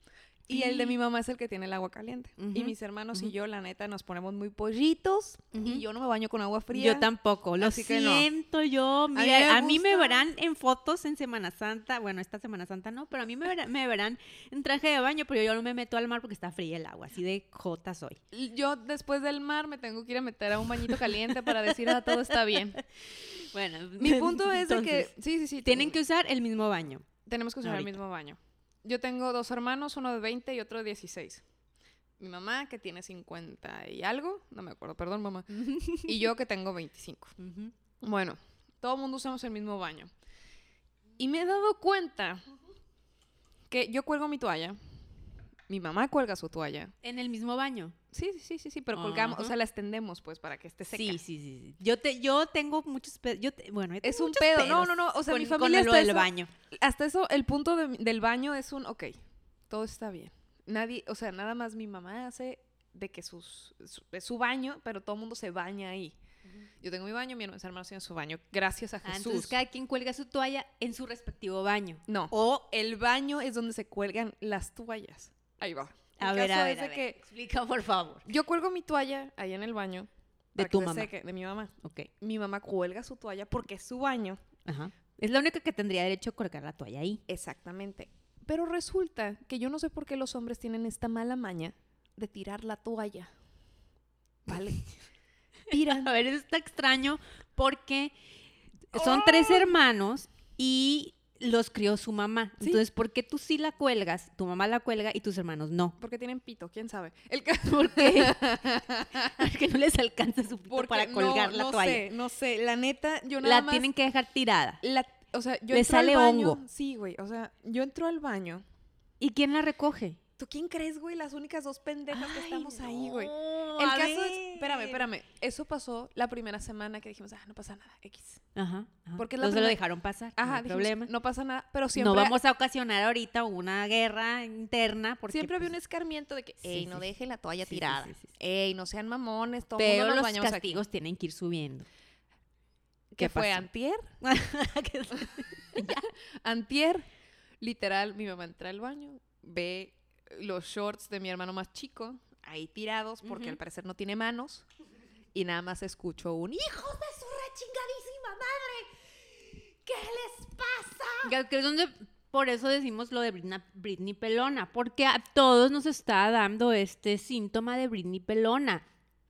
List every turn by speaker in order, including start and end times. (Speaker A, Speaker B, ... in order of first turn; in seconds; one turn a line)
Speaker A: 0.5-8.3
Speaker B: 0.5-0.9
Speaker B: 2.4-3.3
Speaker B: 5.5-5.8
Speaker B: 6.7-18.2
Speaker A: 9.1-10.2
Speaker A: 18.3-22.8
Speaker B: 21.7-22.2
Speaker B: 22.8-25.1
Speaker A: 24.0-25.9
Speaker B: 25.6-27.1
Speaker A: 27.2-31.4
Speaker B: 27.6-27.9
Speaker A: 32.2-37.3
Speaker B: 35.5-36.1
Speaker B: 37.4-37.7
Speaker A: 38.0-40.1
Speaker A: 41.2-42.4
Speaker A: 43.7-44.8
Speaker A: 45.7-46.9
Speaker B: 47.0-47.9
Speaker A: 48.1-51.2
Speaker B: 48.9-49.5
Speaker B: 50.9-56.5
Speaker A: 54.0-66.2
Speaker A: 66.8-69.5
Speaker B: 69.0-72.6
Speaker A: 72.1-77.2
Speaker B: 76.2-78.2
Speaker A: 78.2-84.4
Speaker B: 80.5-81.1
Speaker B: 81.8-82.1
Speaker B: 84.7-87.2
Speaker A: 87.3-93.3
Speaker A: 94.5-94.9
Speaker A: 95.7-96.1
Speaker B: 95.7-98.1
Speaker B: 98.9-106.0
Speaker A: 98.9-99.7
Speaker A: 106.0-109.4
Speaker B: 107.6-108.6
Speaker B: 109.3-112.0
Speaker A: 110.7-113.9
Speaker B: 113.4-114.8
Speaker A: 114.8-118.6
Speaker B: 115.7-116.6
Speaker B: 119.2-120.2
Speaker A: 120.4-128.4
Speaker B: 122.1-125.0
Speaker B: 128.5-131.1
Speaker A: 129.2-129.8
Speaker A: 130.4-132.3
Speaker B: 131.9-135.7
Speaker A: 135.3-140.8
Speaker B: 136.6-137.1
Speaker B: 137.6-138.3
Speaker B: 139.8-141.9
Speaker A: 143.1-144.1
Speaker B: 143.2-143.7
Speaker B: 144.2-146.1
Speaker A: 145.8-147.1
Speaker A: 147.6-154.6
Speaker B: 153.2-153.6
Speaker A: 155.3-158.9
Speaker A: 159.4-161.3
Speaker B: 161.2-168.8